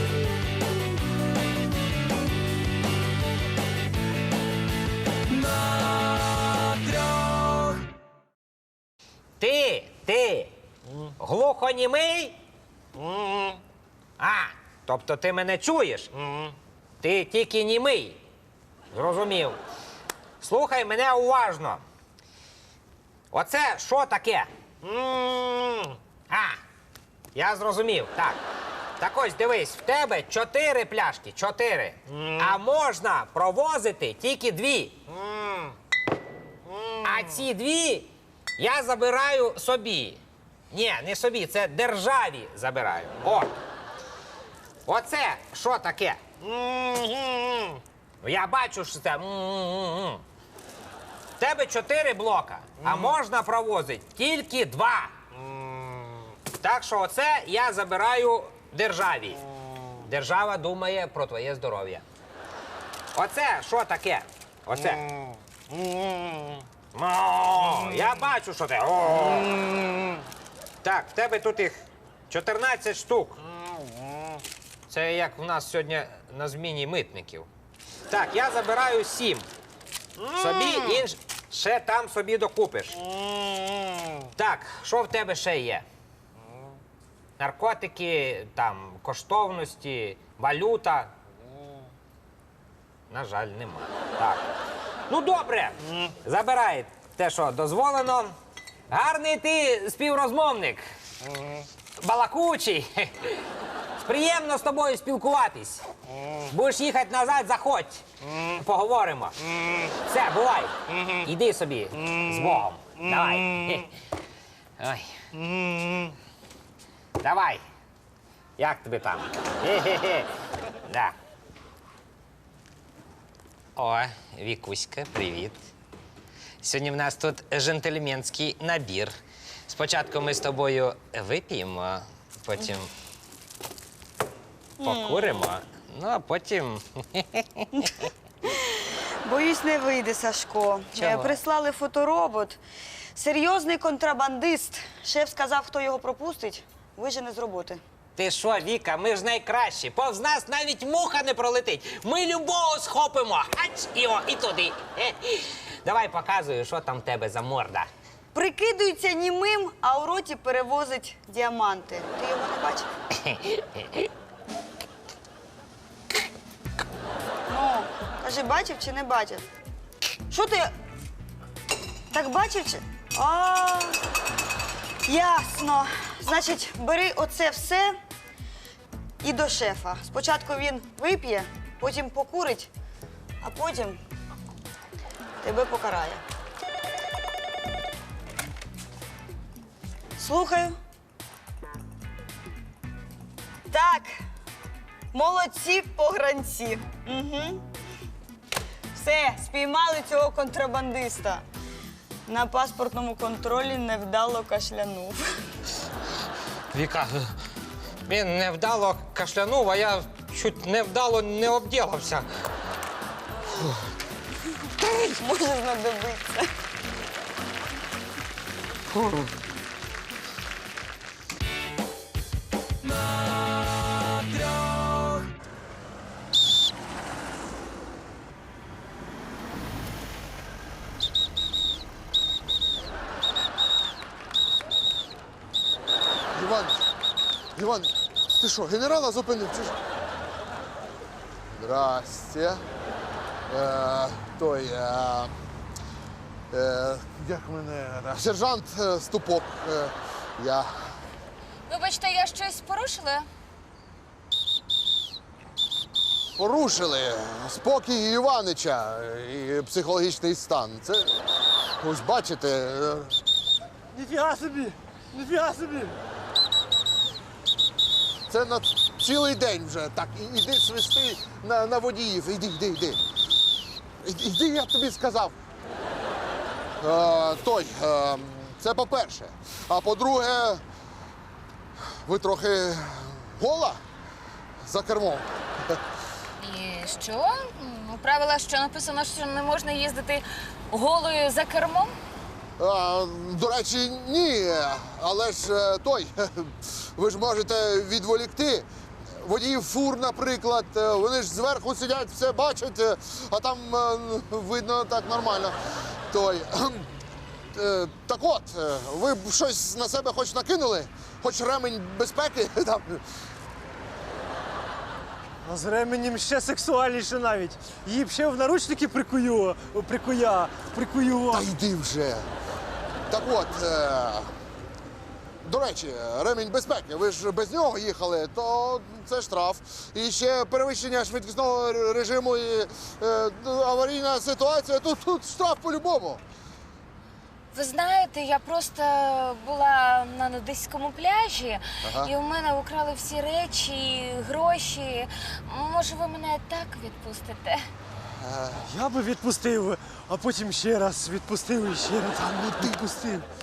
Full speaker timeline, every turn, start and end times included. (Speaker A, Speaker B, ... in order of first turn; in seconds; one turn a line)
Speaker A: 9.4-10.6
Speaker A: 11.2-12.4
Speaker A: 14.2-16.1
Speaker A: 17.0-18.2
Speaker A: 18.9-19.6
Speaker A: 20.4-21.8
Speaker A: 23.3-24.5
Speaker A: 26.3-26.6
Speaker A: 27.4-28.4
Speaker A: 29.0-35.0
Speaker A: 37.0-40.2
Speaker A: 40.7-43.5
Speaker A: 44.9-46.2
Speaker B: 46.6-47.4
Speaker A: 48.2-50.2
Speaker A: 51.4-55.1
Speaker A: 56.6-59.4
Speaker A: 60.0-62.0
Speaker A: 63.1-65.1
Speaker A: 66.9-69.5
Speaker A: 70.8-73.4
Speaker A: 74.9-77.5
Speaker A: 78.1-79.5
Speaker A: 80.3-83.0
Speaker A: 84.3-85.9
Speaker A: 87.4-91.1
Speaker A: 93.1-94.4
Speaker A: 95.1-98.3
Speaker A: 98.9-100.9
Speaker A: 102.0-103.4
Speaker A: 104.0-105.8
Speaker A: 106.5-109.4
Speaker A: 110.1-113.9
Speaker A: 114.8-115.1
Speaker A: 117.2-117.6
Speaker A: 118.6-120.3
Speaker A: 120.9-121.2
Speaker A: 123.8-125.6
Speaker A: 126.6-129.2
Speaker A: 129.7-132.9
Speaker C: 134.8-135.4
Speaker A: 134.8-138.1
Speaker C: 138.4-142.6
Speaker A: 141.0-141.4
Speaker C: 143.2-147.8
Speaker A: 148.2-157.9
Speaker C: 158.3-162.9
Speaker A: 163.2-164.0
Speaker C: 167.5-169.5
Speaker C: 170.3-170.7
Speaker C: 172.1-174.0
Speaker C: 175.1-178.0
Speaker C: 179.2-182.7
Speaker C: 183.4-184.0
Speaker C: 185.4-186.2
Speaker C: 190.2-190.8
Speaker C: 193.7-194.2
Speaker C: 195.1-197.6
Speaker C: 198.9-201.4
Speaker C: 202.3-205.2
Speaker A: 206.7-207.3
Speaker A: 208.1-212.3
Speaker C: 215.2-216.5
Speaker D: 236.3-236.8
Speaker D: 237.6-239.8
Speaker D: 241.5-242.6
Speaker D: 243.5-245.3
Speaker D: 246.5-250.9
Speaker E: 251.7-253.3
Speaker D: 256.4-261.2
Speaker D: 261.8-263.2
Speaker B: 263.9-266.0
Speaker D: 268.3-273.0
Speaker D: 274.0-275.4
Speaker D: 276.8-280.6
Speaker D: 282.0-283.8
Speaker D: 284.6-285.8
Speaker E: 286.4-291.9
Speaker D: 292.6-298.7
Speaker D: 299.2-305.6
Speaker D: 306.1-306.9
Speaker D: 307.5-313.0
Speaker B: 315.4-321.5
Speaker D: 321.3-322.3
Speaker D: 323.1-324.3
Speaker D: 325.4-336.2
Speaker E: 337.5-347.7
Speaker D: 341.8-342.1
Speaker D: 348.2-348.7
Speaker B: 348.7-353.3